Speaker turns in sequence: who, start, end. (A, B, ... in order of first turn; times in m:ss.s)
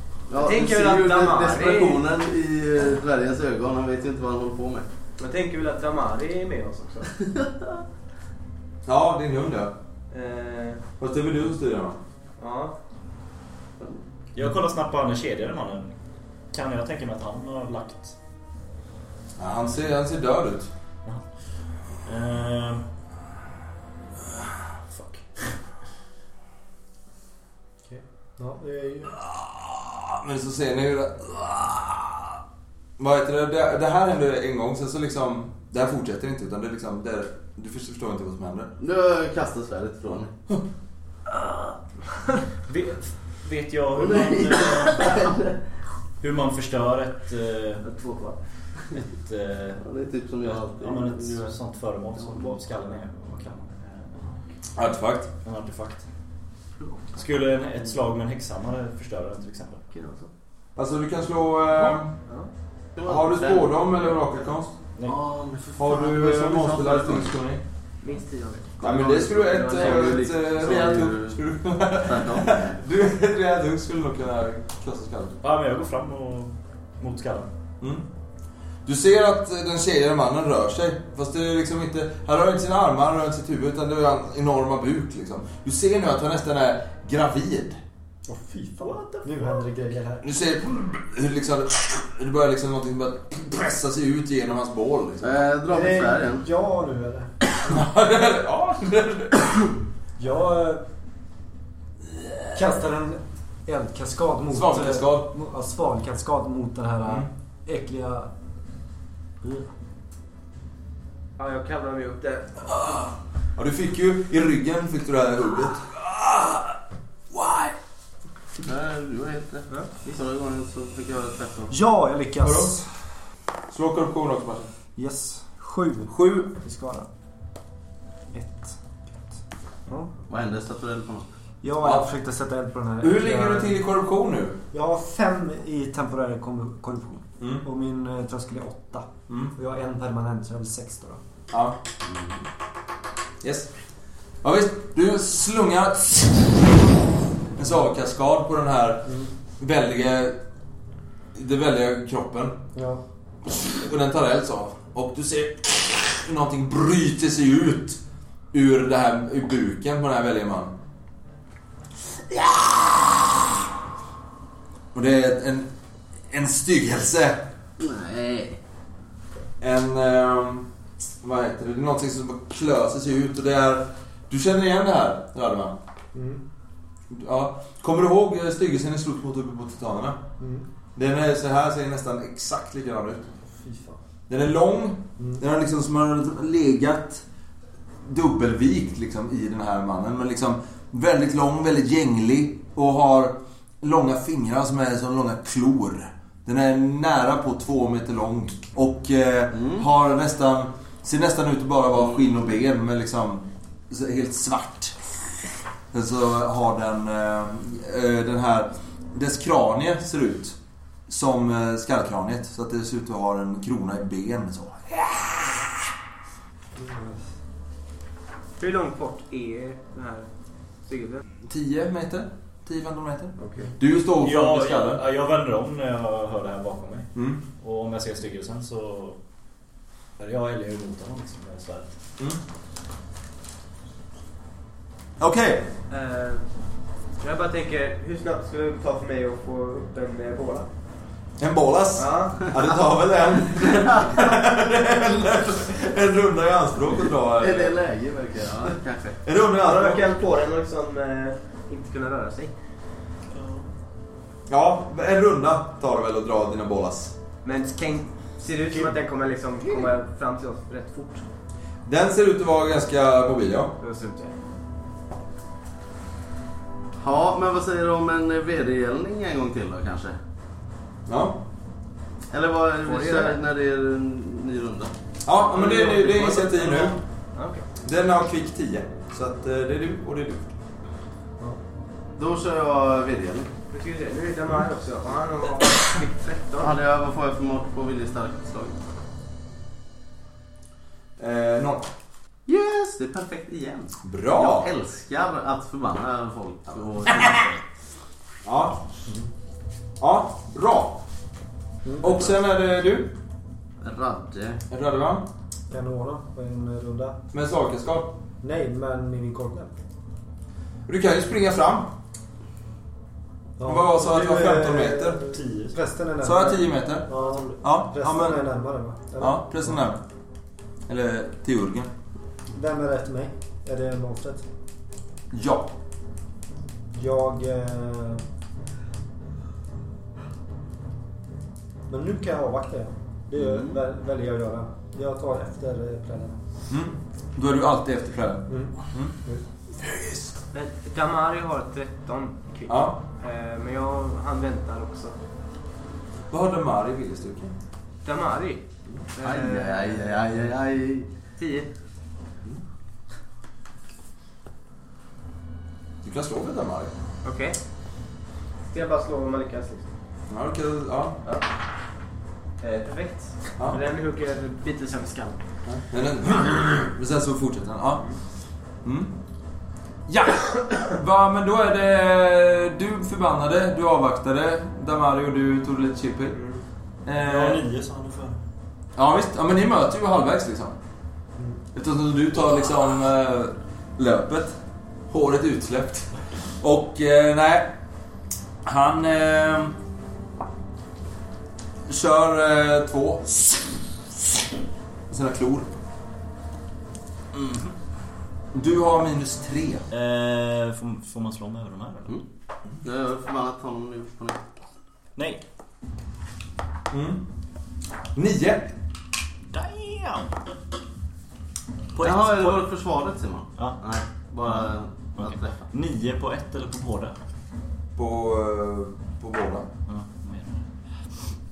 0:00.3-0:04.8 A
0:00.4-0:02.0 B
0:05.2-0:07.1 B
0:08.8-0:09.7 C
0:10.1-0:10.8 B
0:11.0-0:12.0 C
0:12.4-0:12.7 B
0:14.3-0:15.9 D
0:16.5-0:18.2 D
0:19.4-0:20.7 C
0:21.9-0:22.8 D
0:24.9-0:25.5 D
0:27.9-0:29.2 E
0:29.2-0:32.4 C
0:33.0-0:38.7 C
0:38.8-0:40.3 A
0:42.7-0:45.2 D
0:43.9-0:45.6 A
0:46.2-0:47.8 D
0:47.8-0:48.4 B
0:48.9-0:49.8 D
0:49.8-0:51.5 A
0:50.4-0:54.2 D
0:52.2-0:52.6 A
0:54.8-0:55.3 C
0:55.4-0:56.0 D
0:56.8-0:57.1 B
0:57.1-0:59.8 D
0:59.9-1:00.3 B
1:00.8-1:02.1 C
1:01.8-1:02.5 B
1:03.0-1:03.9 A
1:03.0-1:04.8 C
1:05.0-1:07.3 A
1:05.8-1:07.6 C
1:08.0-1:10.3 B
1:08.8-1:15.4 C
1:09.7-1:11.4 A
1:12.0-1:12.8 A
1:15.4-1:17.5 D
1:17.8-1:18.0 C
1:18.8-1:27.8 C
1:28.3-1:30.2 E
1:30.2-1:35.5 C
1:35.2-1:36.4 A
1:35.7-1:37.3 E
1:37.6-1:39.7 C
1:40.2-1:40.8 E
1:42.5-1:48.3 E
1:44.5-1:45.3 C
1:51.4-1:53.0 B
1:53.6-1:56.7 C
1:57.3-1:57.7 C
1:58.6-2:01.7 A
2:01.7-2:02.9 E
2:02.4-2:02.7 C
2:03.7-2:04.7 C
2:05.0-2:07.1 E
2:06.1-2:06.5 C
2:08.3-2:08.8 E
2:10.3-2:11.3 A
2:11.6-2:13.8 E
2:11.8-2:12.1 C
2:13.0-2:14.6 C
2:14.7-2:21.2 E
2:19.3-2:19.5 C
2:21.5-2:21.8 C
2:22.0-2:22.4 A
2:23.4-2:23.7 C
2:24.4-2:30.4 C
2:31.3-2:32.6 C
2:32.7-2:33.0 E
2:33.4-2:38.0 C
2:38.5-2:40.7 C
2:44.9-2:45.7 C
2:46.3-2:47.4 C
2:47.8-2:48.6 A
2:49.6-2:50.7 C
2:51.2-2:55.8 C
2:56.1-2:56.4 E
2:57.1-3:00.2 C
3:00.4-3:00.6 E
3:01.0-3:03.3 C
3:03.6-3:04.0 E
3:04.3-3:07.2 C
3:08.0-3:30.6 C
3:19.5-3:19.8 A
3:31.1-3:35.7 C
3:36.7-3:37.2 E
3:38.6-3:40.3 B
3:40.8-3:41.2 B
3:41.4-3:45.0 C
3:43.4-3:43.7 B
3:44.2-3:49.2 D
3:47.1-3:47.4 C
3:50.2-3:51.9 D
3:55.2-3:55.7 C
3:55.9-3:56.5 B
3:57.2-4:00.7 B
4:01.4-4:07.8 C
4:02.0-4:02.5 B
4:07.4-4:09.2 A
4:09.2-4:10.0 C
4:09.6-4:12.5 B
4:13.3-4:13.6 D
4:14.5-4:17.1 C
4:17.4-4:21.2 B
4:21.8-4:23.7 C
4:23.8-4:24.3 B
4:27.0-4:30.2 A
4:31.0-4:31.4 C
4:32.3-4:34.9 A
4:32.8-4:33.4 B
4:35.2-4:37.0 C
4:35.5-4:37.6 B
4:37.8-4:40.5 C
4:42.2-4:43.5 A
4:43.7-4:46.8 B
4:46.6-4:48.8 A
4:51.2-4:51.9 C
4:52.5-4:57.6 A
4:54.0-4:54.7 C
4:57.1-4:57.4 C
4:58.4-4:58.8 C
5:00.0-5:01.0 C
5:01.8-5:02.2 E
5:02.0-5:03.1 C
5:03.8-5:04.6 A
5:04.7-5:05.3 C
5:05.7-5:07.2 E
5:07.3-5:08.2 C
5:08.4-5:09.8 E
5:10.9-5:11.9 C
5:13.6-5:19.8 E
5:13.6-5:15.2 C
5:15.3-5:15.7 D
5:16.2-5:17.1 C
5:17.2-5:17.6 D
5:17.6-5:18.4 C
5:19.2-5:20.0 C
5:20.9-5:21.9 C
5:22.5-5:24.4 E
5:25.3-5:25.7 C
5:26.9-5:28.2 E
5:31.9-5:36.4 E
5:33.4-5:33.8 A
5:36.7-5:39.1 C
5:38.5-5:39.4 E
5:39.8-5:40.2 C
5:40.5-5:45.2 B
5:42.7-5:43.0 C
5:46.3-5:47.5 C
5:48.0-5:48.6 B
5:49.1-5:50.3 B
5:49.2-5:51.1 A
5:51.4-5:51.7 B
5:56.0-5:56.9 C
5:57.2-5:57.6 B
5:58.7-5:59.9 B
6:00.3-6:01.2 C
6:02.6-6:05.4 B
6:05.6-6:08.0 C
6:08.8-6:09.1 C
6:10.1-6:16.4 C
6:16.3-6:16.6 B
6:17.0-6:17.6 C
6:17.2-6:18.4 D
6:19.0-6:20.7 C
6:21.7-6:24.6 C
6:25.1-6:27.7 C
6:28.6-6:29.7 C
6:31.9-6:33.8 C
6:35.1-6:35.7 C
6:37.3-6:37.7 D
6:38.5-6:39.8 C
6:39.9-6:42.2 D
6:42.8-6:44.4 A
6:45.2-6:45.4 D
6:46.9-6:47.2 C
6:48.1-6:48.7 C
6:49.5-6:50.3 D
6:51.9-6:52.6 D
6:52.0-6:55.7 A
6:54.4-6:57.1 D
6:58.0-6:59.7 C
6:59.9-7:00.6 D